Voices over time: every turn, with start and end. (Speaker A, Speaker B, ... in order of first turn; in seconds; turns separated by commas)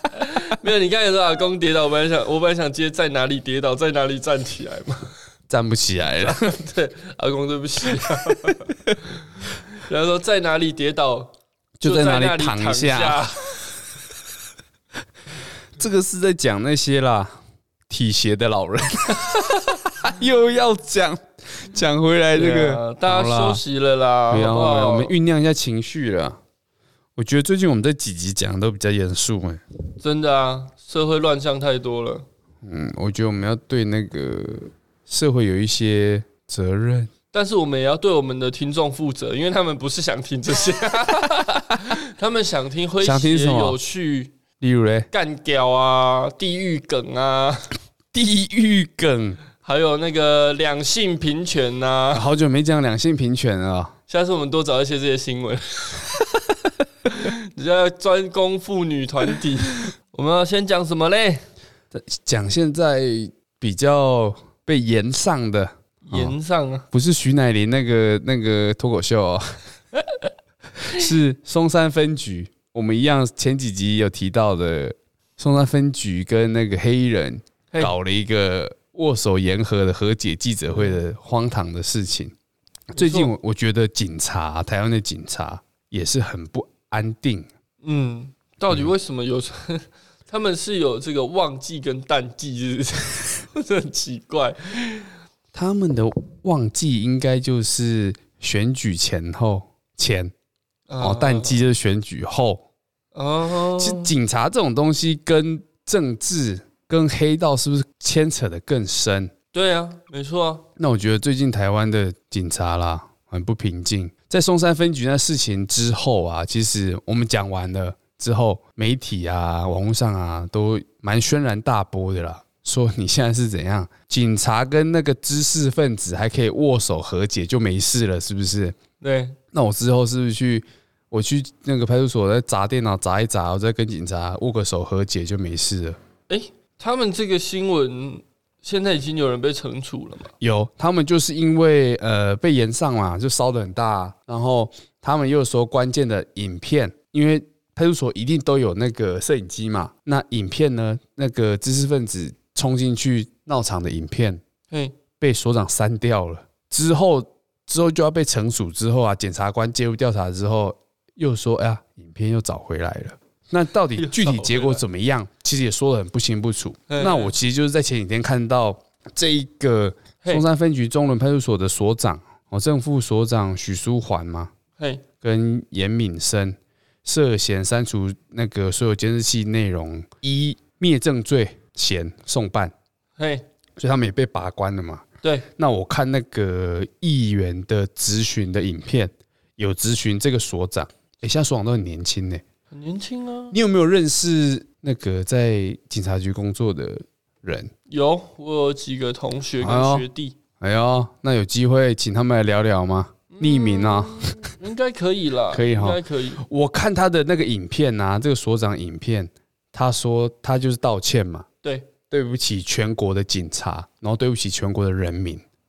Speaker A: 0.1-5.1, Speaker B: 5.5-6.6, Speaker A: 6.2-11.3, Speaker B: 8.3-8.6, Speaker B: 11.8-13.3, Speaker A: 11.8-13.7, Speaker B: 15.8-17.3, Speaker B: 17.9-23.6, Speaker A: 22.3-25.1, Speaker B: 24.3-26.4, Speaker B: 27.2-29.6, Speaker A: 30.0-32.2, Speaker B: 32.6-37.1, Speaker A: 37.3-44.4, Speaker B: 43.0-43.8, Speaker B: 44.6-45.1, Speaker A: 45.1-47.7, Speaker B: 48.1-49.4, Speaker A: 49.6-52.2, Speaker B: 52.1-53.9, Speaker A: 54.1-56.2, Speaker A: 57.0-61.4, Speaker B: 61.9-66.3, Speaker A: 66.0-66.8, Speaker B: 66.9-69.5, Speaker B: 70.8-82.3, Speaker B: 82.9-87.5, Speaker A: 82.9-83.3, Speaker A: 87.8-95.1, Speaker B: 95.5-100.3, Speaker A: 100.9-101.6, Speaker B: 101.0-102.6, Speaker A: 103.1-104.1, Speaker B: 103.8-109.3, Speaker A: 109.5-110.6, Speaker B: 110.8-128.8, Speaker A: 129.0-129.4, Speaker B: 129.5-136.0, Speaker A: 136.3-140.3, Speaker B: 140.4-154.4, Speaker A: 154.7-154.9, Speaker B: 155.2-174.5, Speaker A: 163.9-164.8, Speaker A: 166.9-167.3, Speaker A: 174.8-175.0, Speaker B: 175.2-182.7, Speaker A: 183.2-183.4, Speaker B: 183.8-192.4, Speaker A: 192.7-193.6, Speaker B: 193.5-197.7, Speaker A: 197.9-200.3, Speaker B: 199.6-200.1, Speaker B: 200.6-204.5, Speaker A: 203.3-206.4, Speaker B: 205.5-211.5, Speaker A: 211.6-211.9, Speaker B: 212.1-215.4